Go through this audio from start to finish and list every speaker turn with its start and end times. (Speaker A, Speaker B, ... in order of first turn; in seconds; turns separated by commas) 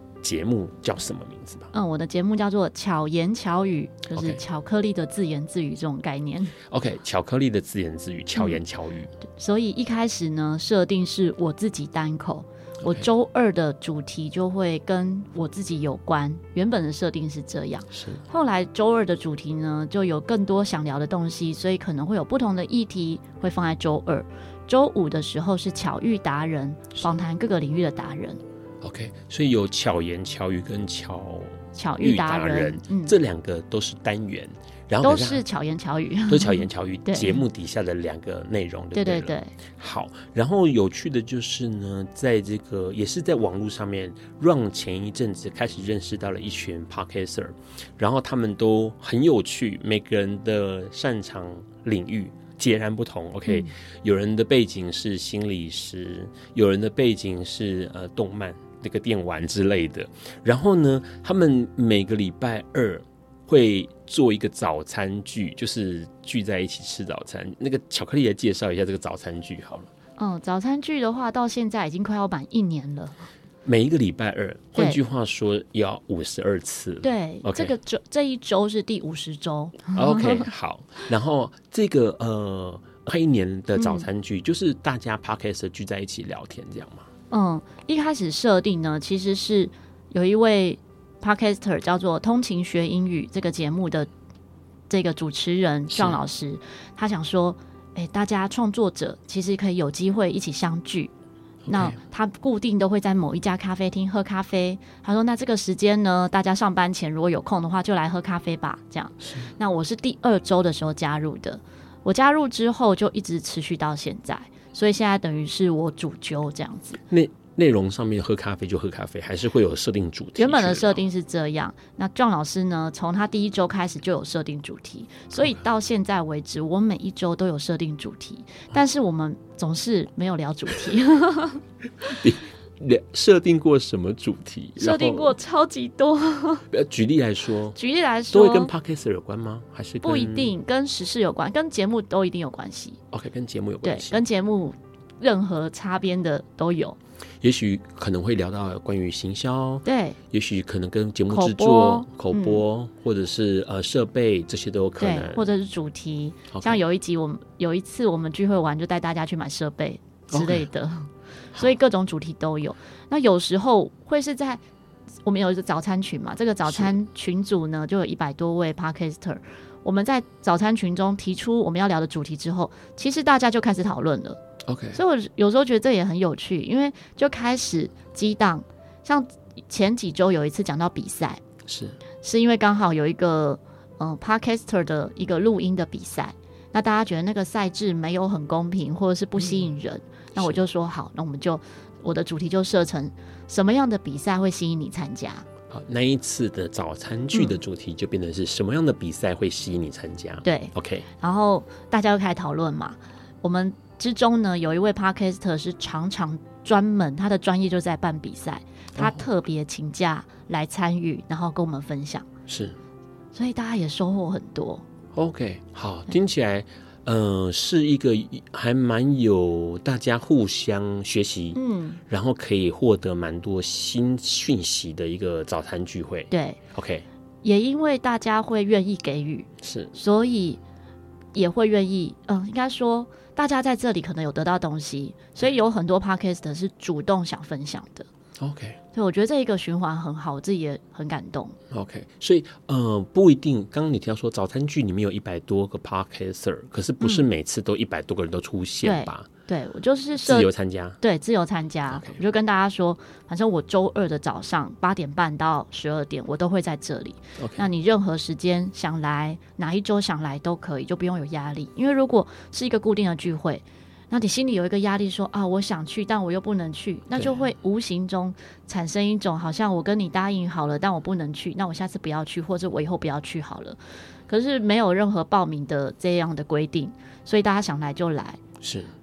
Speaker A: 0.2-1.7, Speaker B: 1.7-6.5, Speaker A: 4.2-4.4, Speaker A: 6.7-9.1, Speaker B: 9.3-28.4, Speaker A: 17.9-18.2, Speaker A: 28.8-35.4, Speaker B: 31.8-33.1, Speaker B: 35.0-37.4, Speaker A: 36.3-69.9, Speaker B: 38.9-39.5, Speaker B: 70.2-73.2, Speaker A: 73.7-77.8, Speaker B: 77.0-80.5, Speaker A: 79.9-87.1, Speaker B: 83.8-84.1, Speaker B: 87.3-94.1, Speaker B: 94.9-101.1, Speaker A: 95.9-96.2, Speaker A: 101.7-102.0, Speaker B: 101.7-117.0, Speaker A: 109.2-109.5, Speaker A: 117.1-121.0, Speaker B: 120.4-131.6, Speaker A: 132.0-135.4, Speaker B: 134.8-136.7, Speaker A: 136.7-137.8, Speaker B: 137.8-138.7, Speaker A: 138.3-140.5, Speaker B: 140.0-143.0, Speaker A: 143.1-144.2, Speaker B: 143.8-147.0, Speaker A: 147.4-155.4, Speaker B: 149.8-150.2, Speaker B: 151.3-152.6, Speaker B: 155.0-164.6, Speaker A: 156.5-156.8, Speaker A: 160.3-160.7, Speaker B: 165.2-174.4, Speaker A: 166.7-166.9, Speaker A: 174.7-175.0, Speaker B: 174.9-181.4, Speaker A: 181.7-182.0, Speaker B: 182.2-195.5, Speaker A: 195.7-201.1, Speaker B: 197.3-197.6, Speaker B: 200.4-212.3, Speaker A: 209.0-209.3, Speaker A: 212.5-212.8, Speaker B: 213.3-214.8, Speaker A: 215.1-227.1, Speaker B: 221.6-222.0, Speaker B: 226.3-226.6, Speaker B: 227.4-230.6, Speaker A: 229.6-229.9, Speaker B: 231.3-238.1, Speaker A: 238.4-238.8, Speaker B: 238.9-241.6, Speaker A: 241.7-249.3, Speaker B: 248.8-278.4, Speaker A: 250.2-251.0, Speaker A: 251.9-252.2, Speaker A: 257.4-257.7, Speaker A: 267.2-267.4, Speaker A: 278.6-278.9